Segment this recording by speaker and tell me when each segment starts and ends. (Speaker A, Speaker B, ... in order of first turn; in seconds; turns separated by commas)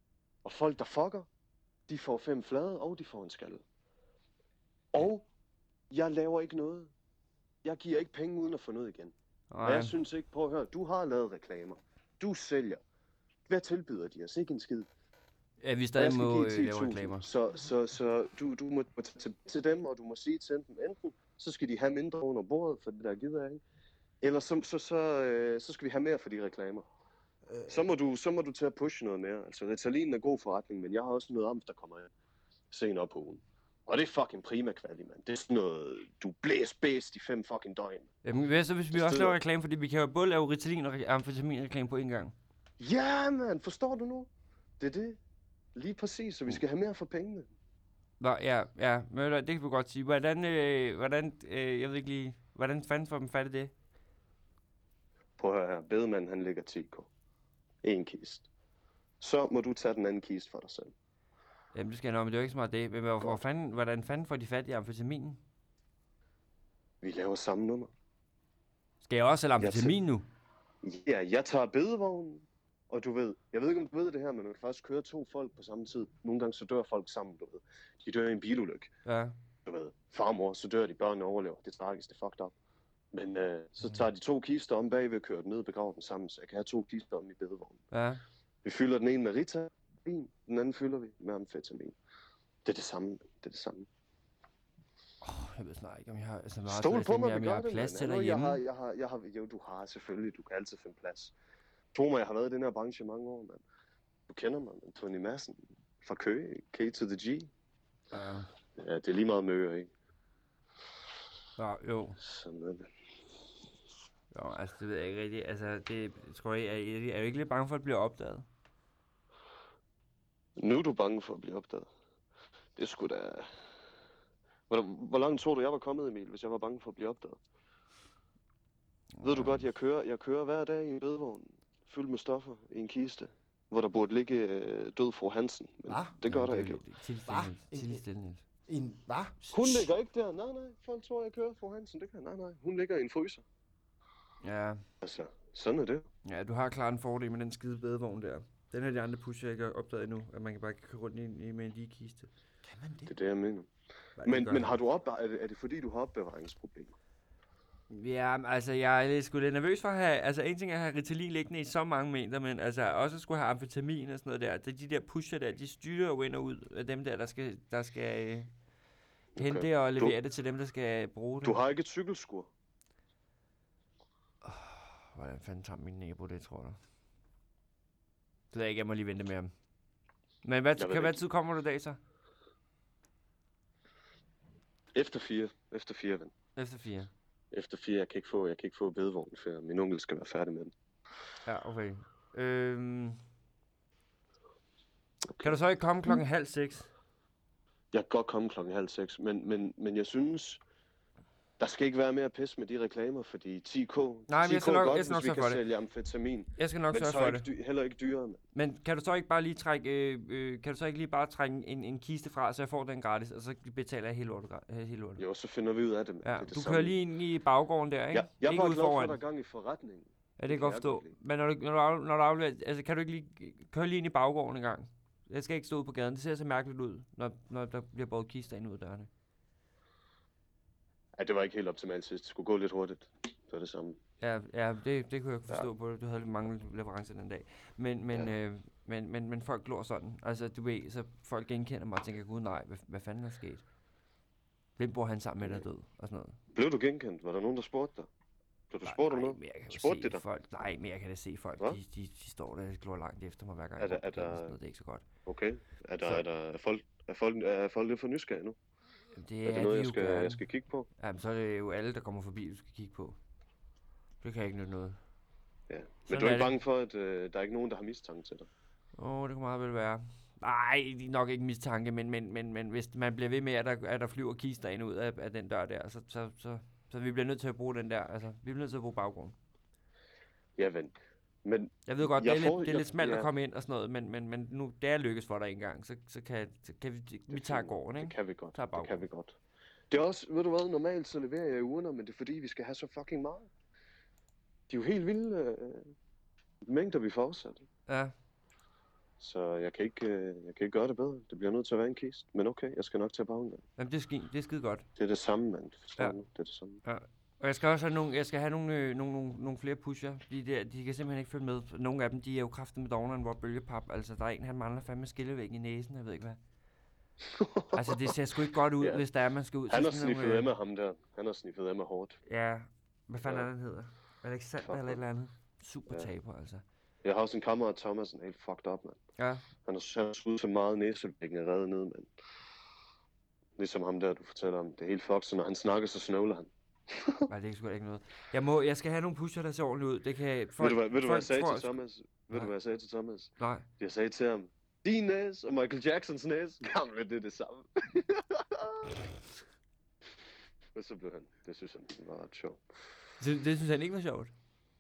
Speaker A: 0.4-1.3, Speaker A: 1.9-3.6, Speaker A: 4.9-5.2, Speaker A: 5.9-6.9, Speaker A: 7.6-12.8, Speaker B: 9.5-9.9, Speaker A: 13.5-14.9, Speaker B: 15.6-17.3, Speaker A: 16.0-23.6, Speaker A: 24.2-26.9, Speaker C: 27.5-27.9, Speaker A: 27.7-32.1, Speaker A: 32.7-38.1, Speaker B: 38.2-42.3, Speaker A: 38.9-39.4, Speaker A: 42.8-44.3, Speaker A: 44.8-45.2, Speaker A: 45.8-47.5, Speaker B: 48.2-53.7, Speaker A: 55.4-57.1, Speaker A: 57.8-58.5, Speaker A: 59.2-60.9, Speaker B: 61.7-65.4, Speaker A: 67.0-67.9, Speaker B: 69.0-70.3, Speaker A: 69.6-70.0, Speaker A: 70.8-78.9, Speaker B: 79.1-79.4, Speaker A: 79.7-82.5, Speaker A: 83.1-87.8, Speaker B: 87.9-88.2, Speaker A: 88.6-92.0, Speaker A: 92.7-93.9, Speaker B: 95.2-98.6, Speaker A: 96.7-101.3, Speaker A: 101.9-103.6, Speaker A: 104.3-107.5, Speaker B: 108.1-108.5, Speaker A: 108.8-109.9, Speaker B: 111.6-112.2, Speaker A: 112.2-112.9, Speaker B: 114.3-118.5, Speaker A: 120.6-121.9, Speaker A: 122.8-123.5, Speaker A: 124.7-127.4, Speaker B: 129.2-129.7, Speaker A: 129.2-136.8, Speaker C: 135.9-136.2, Speaker B: 136.3-138.4, Speaker C: 137.3-138.0, Speaker C: 138.7-139.8, Speaker A: 139.5-143.4, Speaker B: 144.4-144.8, Speaker A: 145.0-146.1, Speaker B: 146.2-152.3, Speaker C: 152.6-153.1, Speaker A: 153.1-153.7, Speaker B: 154.2-154.7, Speaker A: 154.2-156.9, Speaker B: 157.9-168.5, Speaker A: 169.3-170.2, Speaker B: 169.4-171.6, Speaker A: 171.4-172.5, Speaker B: 174.4-176.8, Speaker B: 178.5-179.5, Speaker B: 180.4-182.0, Speaker A: 180.8-181.2, Speaker A: 184.9-186.3, Speaker B: 186.6-187.1, Speaker A: 187.5-190.7, Speaker B: 191.5-193.2, Speaker B: 195.4-196.9, Speaker A: 197.9-200.6, Speaker A: 201.6-208.4, Speaker B: 204.3-205.6, Speaker B: 206.6-207.4, Speaker B: 208.6-215.2, Speaker A: 215.2-217.0, Speaker B: 216.2-219.2, Speaker A: 218.1-221.1, Speaker B: 220.4-229.1, Speaker A: 231.2-234.0, Speaker B: 234.2-243.6, Speaker B: 244.8-246.4, Speaker A: 246.5-248.1, Speaker A: 248.7-250.2, Speaker B: 248.8-255.1, Speaker A: 253.8-254.6, Speaker A: 255.3-258.6, Speaker B: 259.1-260.4, Speaker A: 259.4-260.9, Speaker B: 261.0-263.2, Speaker B: 264.2-265.0, Speaker A: 265.7-268.5, Speaker B: 266.1-266.6, Speaker B: 269.0-279.4, Speaker A: 280.6-280.9, Speaker A: 281.4-283.3, Speaker B: 281.9-289.1, Speaker A: 287.3-289.4, Speaker A: 289.9-293.5, Speaker A: 294.7-295.9, Speaker A: 296.7-297.6, Speaker B: 297.9-298.1, Speaker A: 299.2-303.6, Speaker B: 303.8-304.9, Speaker A: 305.0-306.8, Speaker B: 306.8-316.4, Speaker A: 317.2-318.2, Speaker B: 317.7-320.5, Speaker A: 318.8-319.0, Speaker A: 319.7-322.2, Speaker B: 322.3-326.6, Speaker A: 323.2-323.5, Speaker A: 324.6-325.0, Speaker A: 327.0-329.0, Speaker B: 329.2-329.5, Speaker A: 329.6-332.1, Speaker A: 333.6-337.3, Speaker B: 337.3-341.8, Speaker A: 340.6-349.0, Speaker B: 343.4-343.6, Speaker A: 350.8-352.6, Speaker B: 353.2-354.3